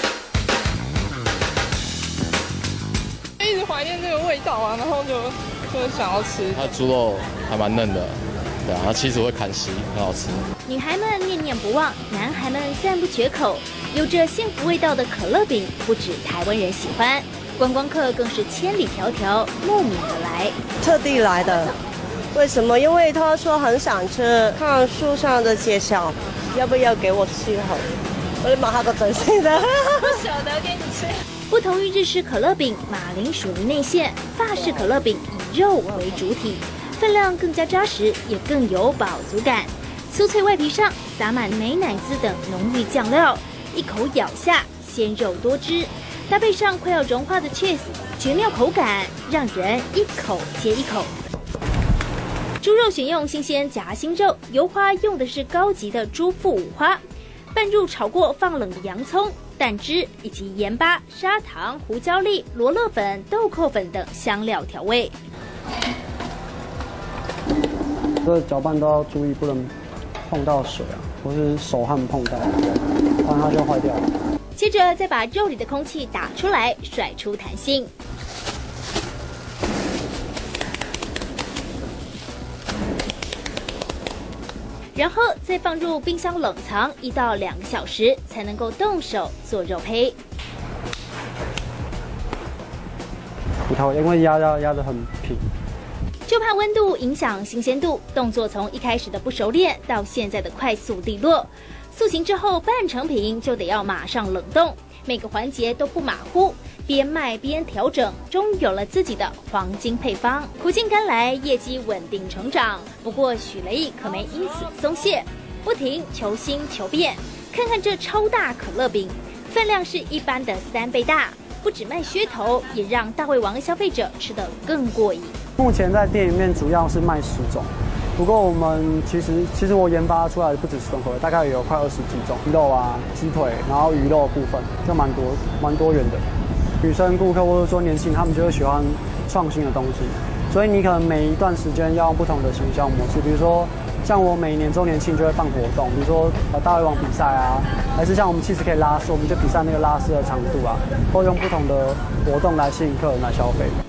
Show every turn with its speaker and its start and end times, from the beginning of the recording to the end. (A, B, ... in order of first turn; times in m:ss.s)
0:03.4-0:06.6 A
0:06.5-0:10.4 B
0:10.6-0:20.6 C
0:20.8-0:21.8 D
0:22.3-0:27.8 D
0:28.4-0:31.0 D
0:31.5-0:51.1 C
0:52.6-0:57.0 C
0:57.5-1:05.2 C
1:08.2-1:12.6 E
1:13.2-1:14.1 E
1:14.6-1:17.9 C
1:24.9-1:30.2 C
1:33.6-1:35.4 E
1:36.3-2:05.4 C
2:05.6-2:16.2 E
2:16.8-2:33.8 E